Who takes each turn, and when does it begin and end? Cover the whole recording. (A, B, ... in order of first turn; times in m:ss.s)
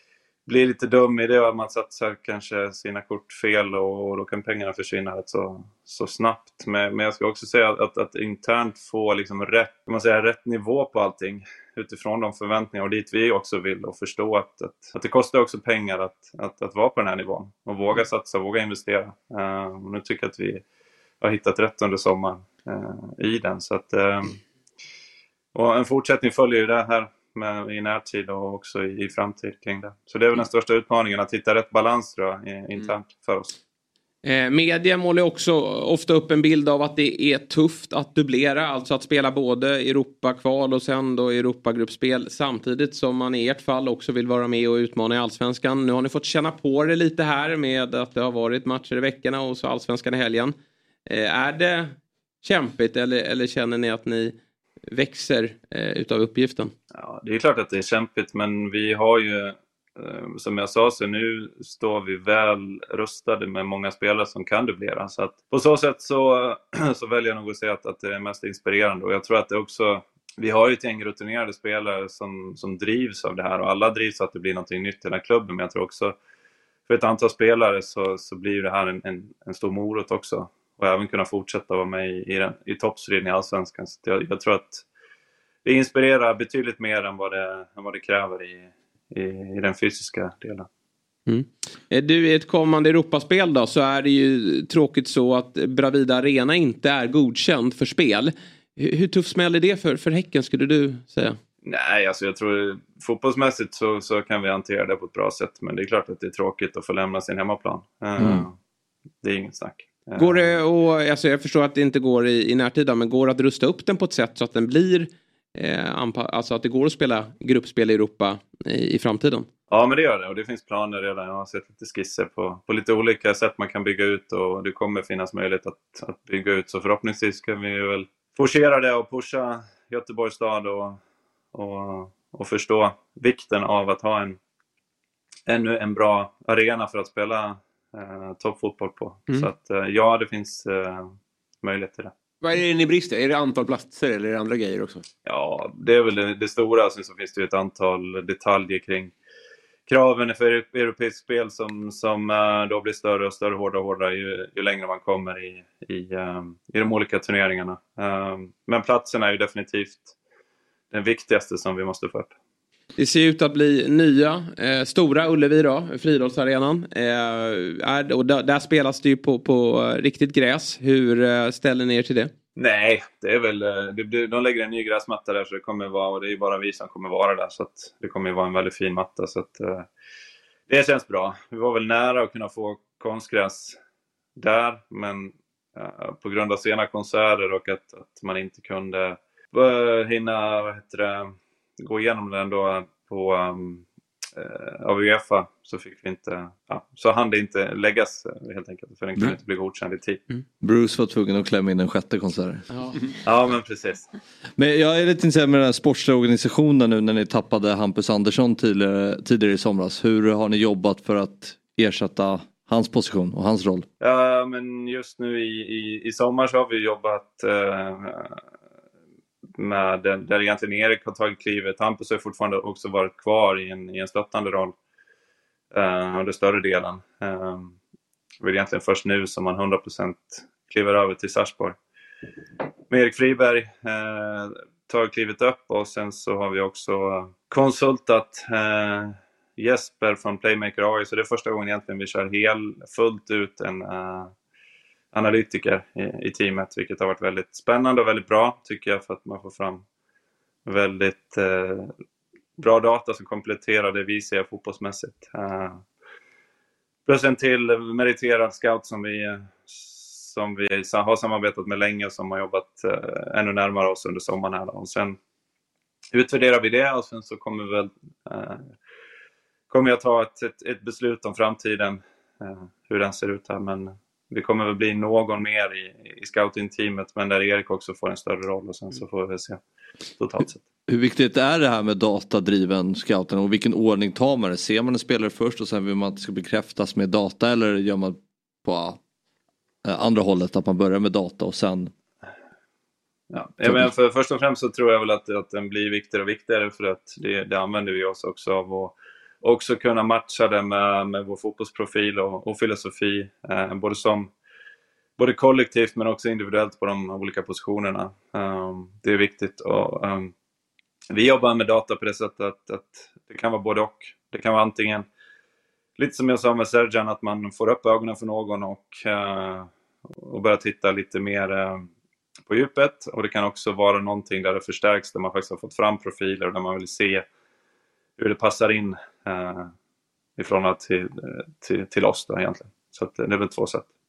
0:00.4-0:20.6 A
0:21.2-0:24.4 A
0:25.5-0:33.6 A
0:34.2-0:50.5 B
0:51.1-0:54.3 B
0:54.9-0:56.7 B
0:56.9-1:16.1 A
1:16.9-1:24.8 A
1:25.6-1:30.7 A
1:31.3-1:41.4 B
1:41.6-1:48.6 A
1:48.2-1:48.4 C
1:49.2-1:50.5 A
1:50.2-1:59.5 B
1:59.7-2:11.0 A
2:11.5-2:14.4 A
2:15.5-2:22.1 A
2:22.4-2:25.0 D
2:25.2-2:29.1 A
2:29.9-2:40.1 A
2:40.9-2:42.3 A
2:43.0-2:52.3 B
2:52.6-2:59.9 A
3:00.7-3:03.8 A
3:04.4-3:13.8 A
3:14.4-3:20.2 A
3:20.6-3:22.6 C
3:23.2-3:24.1 A
3:24.6-3:33.9 C
3:34.0-3:38.4 A
3:39.6-3:44.7 A
3:45.7-3:47.7 A
3:48.4-3:51.8 A
3:52.9-4:04.3 A
4:05.1-4:09.8 A
4:10.6-4:11.9 A
4:12.6-4:15.8 A
4:17.0-4:25.2 A
4:26.1-4:28.7 A
4:29.7-4:39.6 A
4:40.2-4:40.6 A
4:40.9-4:49.0 C
4:49.8-4:51.9 C
4:53.3-5:04.3 A
4:53.6-4:53.9 C
5:05.2-5:10.3 A
5:11.1-5:15.1 A
5:16.0-5:19.7 A
5:20.2-5:21.9 A
5:22.5-5:27.2 A
5:28.2-5:29.7 A
5:30.4-5:33.9 A